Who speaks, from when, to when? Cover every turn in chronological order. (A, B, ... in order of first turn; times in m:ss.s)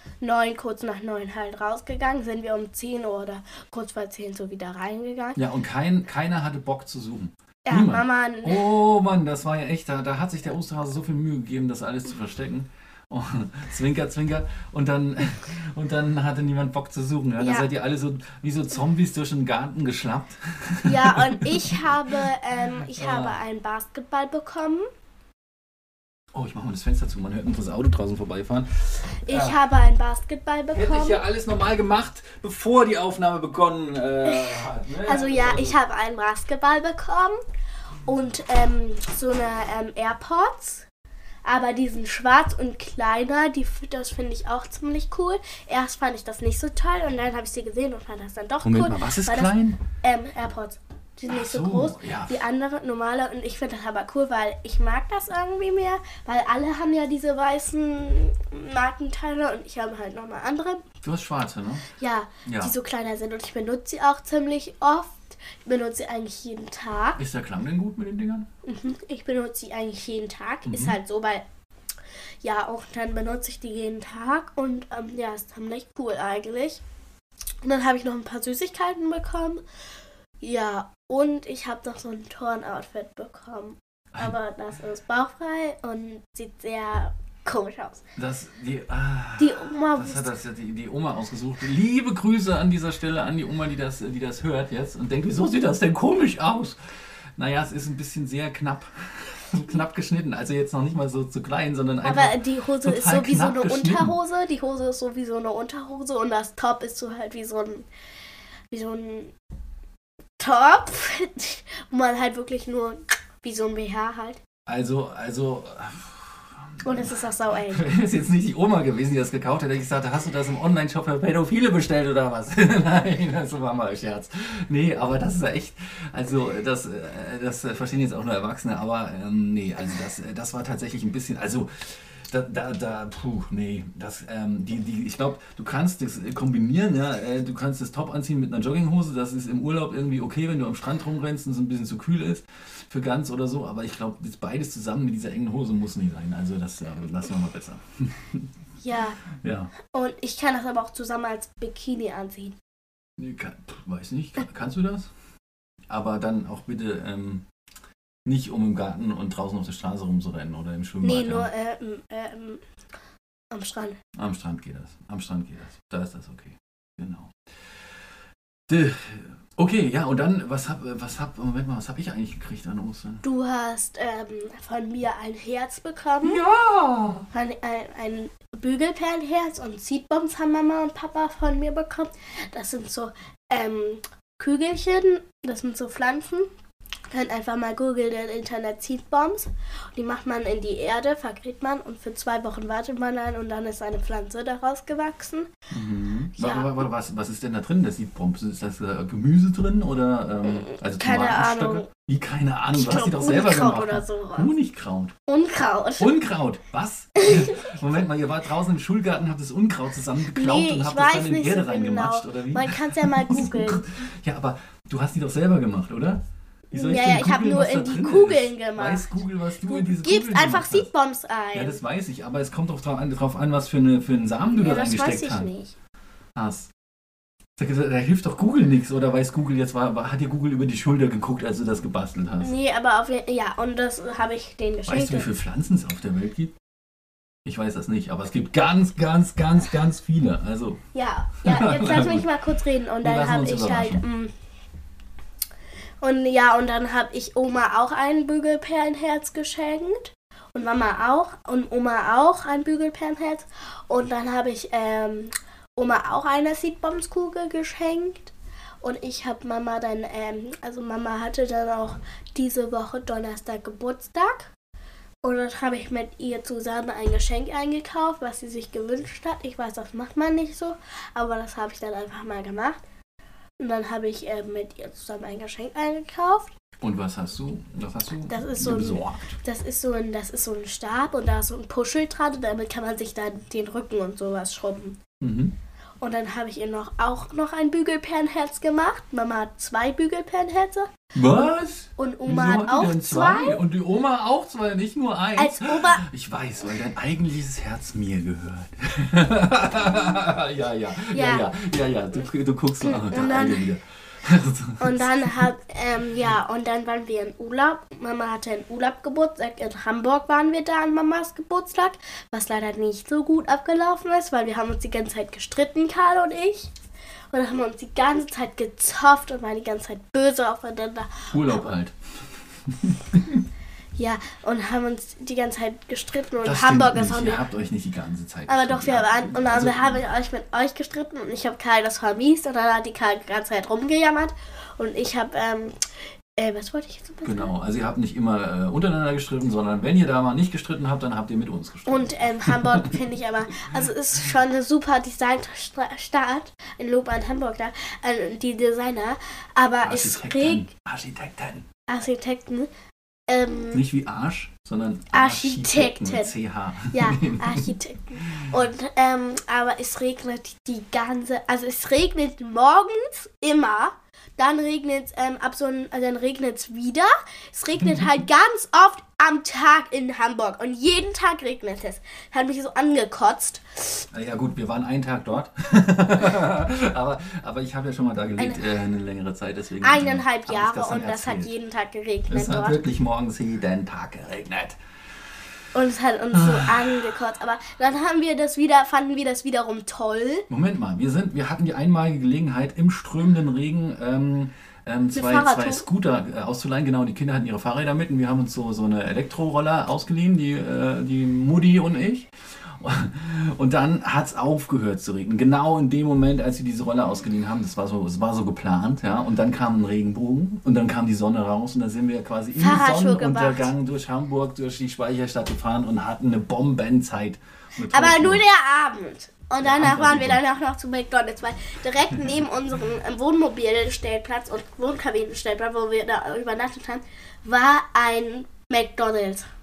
0:00.2-0:05.4 A
0:05.4-0:23.4 B
0:07.6-0:08.6 A
0:17.4-0:17.7 A
0:20.8-0:24.9 A
0:26.3-0:29.6 B
0:29.3-0:31.2 A
0:30.7-0:35.8 B
0:34.2-0:37.4 A
0:38.1-0:40.8 A
0:41.4-1:00.8 A
0:48.6-0:49.8 B
0:51.3-0:52.4 B
1:01.0-1:01.9 B
1:02.0-1:07.2 A
1:02.4-1:02.7 B
1:07.2-1:08.5 B
1:08.6-1:11.4 A
1:10.7-1:11.0 B
1:12.4-1:16.8 A
1:17.6-1:19.6 A
1:20.4-1:28.0 A
1:28.2-1:36.8 B
1:29.4-1:30.3 A
1:37.4-1:44.2 B
1:42.0-1:47.9 A
1:48.7-1:49.3 A
1:50.4-1:54.4 A
1:54.7-1:57.2 B
1:56.8-1:57.8 A
1:57.7-2:28.5 B
2:28.8-2:29.2 A
2:29.3-2:29.7 B
2:29.9-2:32.6 A
2:33.2-2:35.1 B
2:35.9-2:37.4 B
2:38.3-2:41.5 B
2:41.0-2:42.6 A
2:43.5-2:44.0 A
2:44.2-2:47.4 B
2:48.7-2:53.2 B
2:53.2-2:56.4 A
2:56.2-2:57.3 B
2:57.3-3:06.5 A
3:07.1-3:15.5 A
3:15.7-3:25.1 B
3:16.4-3:16.7 A
3:20.6-3:21.9 A
3:22.7-3:24.5 A
3:25.3-3:26.1 A
3:26.0-3:40.9 B
3:27.2-3:27.6 A
3:30.3-3:33.8 A
3:36.7-3:41.8 A
3:41.5-3:45.5 B
3:44.6-3:45.7 A
3:46.4-3:46.7 B
3:47.6-3:52.5 B
3:52.4-3:55.3 A
3:54.9-3:56.5 B
3:57.4-4:00.8 B
4:00.9-4:04.3 A
4:01.4-4:02.3 B
4:03.0-4:04.0 B
4:06.0-4:24.5 A
4:25.2-4:32.8 A
4:33.6-4:36.5 A
4:36.8-4:39.4 B
4:38.3-4:45.0 A
4:45.2-4:45.5 B
4:46.0-4:50.9 A
4:51.1-5:05.5 B
4:52.0-4:53.6 A
4:55.4-4:56.0 A
5:01.1-5:01.5 A
5:02.8-5:03.6 A
5:04.8-5:16.7 A
5:17.3-5:21.7 A
5:21.3-5:22.0 B
5:22.7-5:23.4 B
5:24.0-5:27.4 A
5:26.4-5:30.0 B
5:28.5-5:35.8 A
5:36.4-5:37.5 A
5:37.2-5:43.0 B
5:41.9-5:50.7 A
5:49.8-5:51.7 B
5:51.9-5:52.7 A
5:53.3-5:53.8 A
5:53.7-5:57.7 B
5:55.1-5:56.3 A
5:56.9-6:14.0 A
6:07.8-6:08.1 B
6:14.1-6:21.5 B
6:19.8-6:22.8 A
6:22.3-6:24.8 B
6:25.7-6:30.5 A
6:26.3-6:26.9 B
6:30.5-6:58.4 B
6:35.1-6:35.8 A
6:52.6-6:53.7 A
6:57.9-7:09.5 A
6:59.6-7:00.4 B